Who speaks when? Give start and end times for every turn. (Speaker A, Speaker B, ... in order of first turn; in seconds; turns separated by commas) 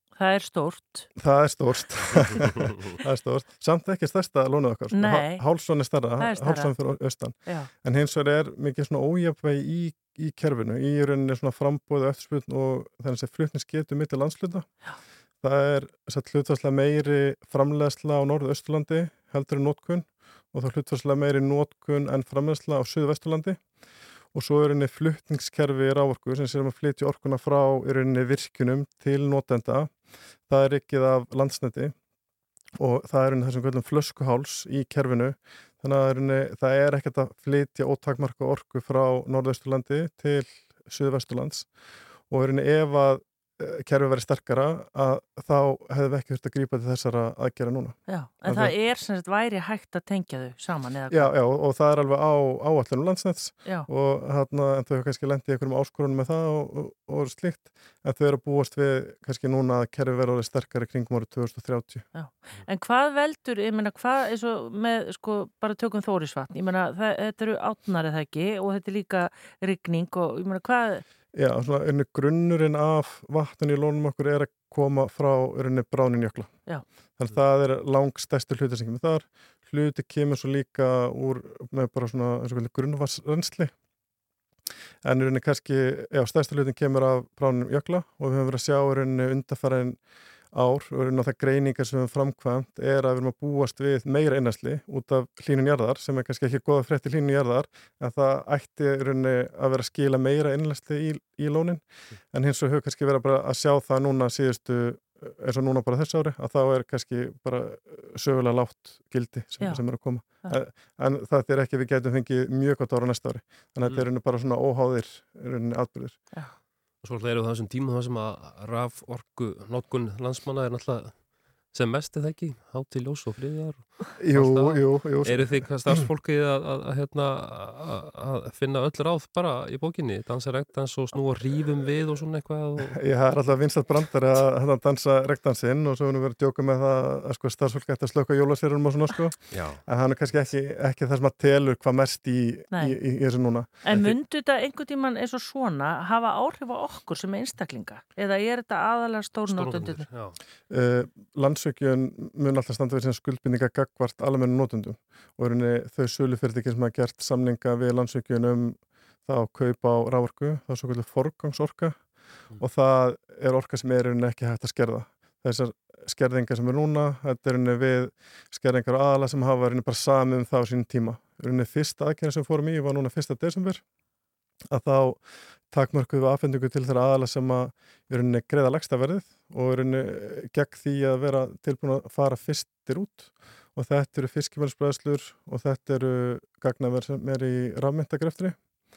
Speaker A: 0.2-1.1, Speaker B: 1.2-14.7, Speaker A: 4.9-5.4, Speaker A: 6.2-6.7, Speaker B: 15.4-23.6, Speaker B: 24.3-29.9, Speaker B: 30.5-31.9, Speaker B: 32.8-41.7, Speaker B: 42.3-48.7, Speaker A: 48.1-51.3, Speaker B: 51.1-62.0, Speaker A: 62.1-71.0, Speaker B: 71.3-76.5, Speaker B: 77.2-83.7, Speaker B: 85.0-90.0, Speaker B: 90.5-116.2, Speaker A: 109.6-110.6, Speaker C: 117.0-133.0, Speaker B: 124.2-126.0, Speaker B: 132.9-143.7, Speaker C: 139.5-139.8, Speaker A: 143.8-150.1, Speaker C: 149.5-150.4, Speaker B: 150.7-162.1, Speaker B: 162.6-173.8, Speaker B: 174.7-188.6